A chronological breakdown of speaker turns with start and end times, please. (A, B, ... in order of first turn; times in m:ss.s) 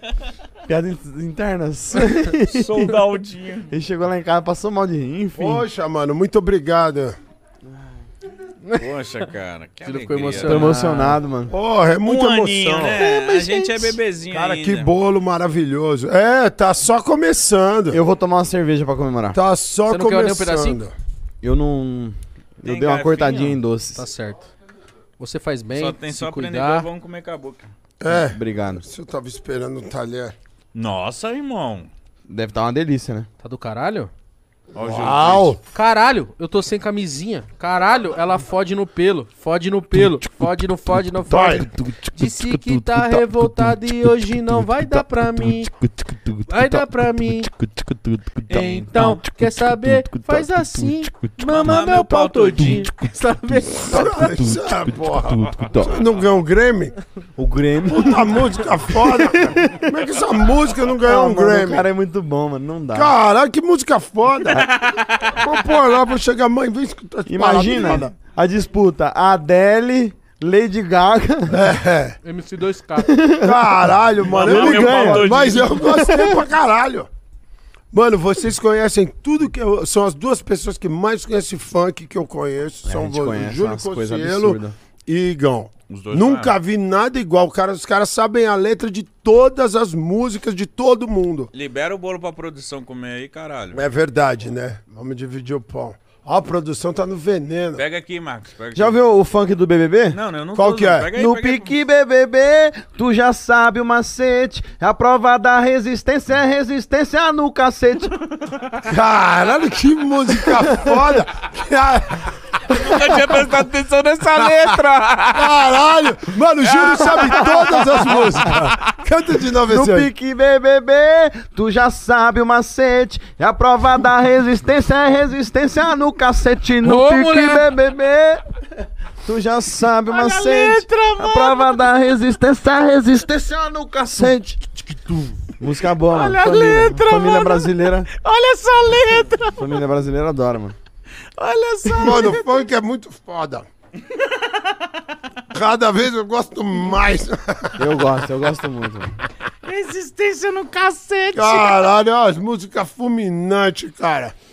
0:00.7-0:02.9 A
0:02.4-0:03.7 B
0:03.7-0:05.6 A
0:05.4-0:07.2 C
0:08.7-0:10.7 B
0:09.8-0:11.2 D
0:10.4-0:11.5 A
0:11.5-0:13.0 C
0:12.0-0:14.9 B
0:13.0-0:13.4 D
0:14.3-0:18.0 C
0:17.9-0:19.4 A
0:19.3-0:21.0 C
0:19.9-0:20.8 D
0:21.4-0:24.1 A
0:22.6-0:23.6 B
0:24.0-0:24.5 D
0:25.2-0:26.9 D
0:25.8-0:27.7 B
0:28.0-0:30.4 C
0:28.1-0:28.8 A
0:30.7-0:31.9 B
0:32.3-0:33.3 A
0:33.4-0:34.1 D
0:34.7-0:35.6 B
0:34.8-0:35.6 C
0:35.7-0:45.7 D
0:39.9-0:40.3 A
0:41.3-0:41.7 C
0:41.7-0:51.4 A
0:46.5-0:47.5 D
0:48.5-0:54.2 D
0:51.5-0:52.9 B
0:52.6-0:56.0 A
0:53.9-0:57.0 C
0:57.4-0:59.8 A
0:57.9-1:01.9 C
1:01.0-1:03.1 A
1:02.9-1:04.7 C
1:04.8-1:05.3 B
1:05.3-1:08.1 C
1:07.3-1:11.6 A
1:11.5-1:12.2 C
1:12.2-1:13.2 D
1:13.0-1:13.7 A
1:13.4-1:17.1 C
1:14.3-1:16.2 B
1:14.4-1:16.4 A
1:17.9-1:31.5 C
1:22.8-1:24.8 A
1:25.9-1:26.6 B
1:31.5-1:33.8 B
1:33.7-1:37.8 C
1:37.8-1:39.0 B
1:38.7-1:40.2 A
1:40.1-1:41.7 B
1:40.5-1:41.1 C
1:41.2-1:48.1 A
1:48.9-1:53.4 C
1:52.7-1:55.6 B
1:54.4-1:54.8 C
1:55.3-2:00.1 C
1:56.6-1:58.2 B
1:59.6-2:08.4 A
2:06.8-2:07.7 D
2:09.2-2:14.6 A
2:10.1-2:11.9 D
2:14.1-2:15.5 D
2:15.6-2:18.1 A
2:16.1-2:19.8 D
2:19.6-2:20.8 A
2:21.4-2:22.4 D
2:21.8-2:22.2 B
2:22.0-2:23.7 C
2:25.5-2:27.9 C
2:27.8-2:29.2 A
2:29.7-2:30.7 B
2:30.0-2:31.4 D
2:31.3-2:31.7 B
2:31.3-2:34.4 C